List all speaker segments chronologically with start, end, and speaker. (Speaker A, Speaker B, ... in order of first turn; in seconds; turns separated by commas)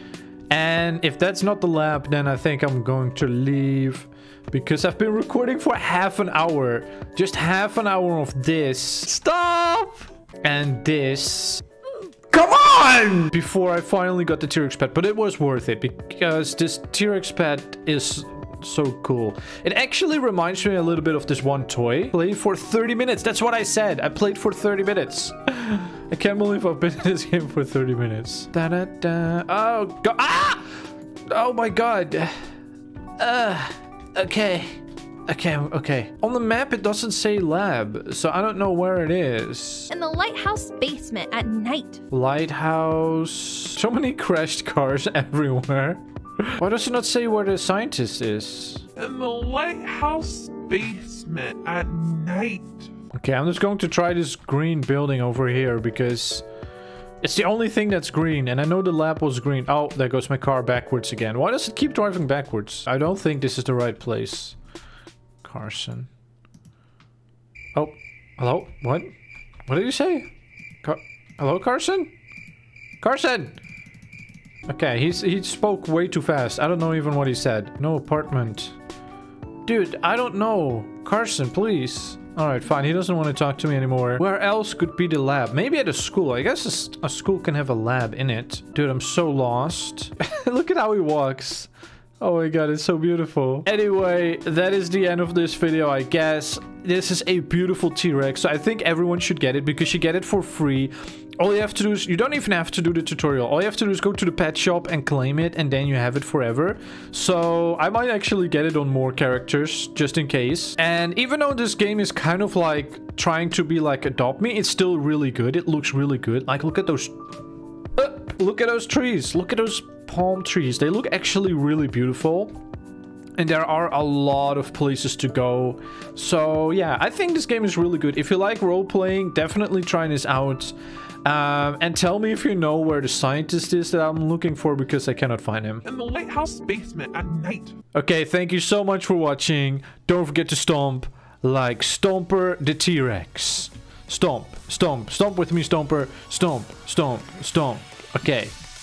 Speaker A: 0.5-11.6, Speaker A: 12.3-32.3, Speaker A: 33.2-39.9, Speaker B: 39.9-42.0, Speaker A: 42.1-48.9, Speaker C: 49.0-52.9, Speaker A: 53.1-56.5, Speaker A: 57.2-64.6, Speaker A: 65.4-66.1, Speaker A: 67.8-69.1, Speaker A: 69.7-70.3, Speaker A: 70.8-72.1, Speaker A: 73.0-73.6, Speaker A: 74.7-78.8, Speaker A: 79.7-91.7, Speaker A: 92.2-117.3, Speaker A: 117.9-122.5, Speaker A: 123.4-135.8, Speaker C: 135.8-137.8, Speaker A: 137.9-148.6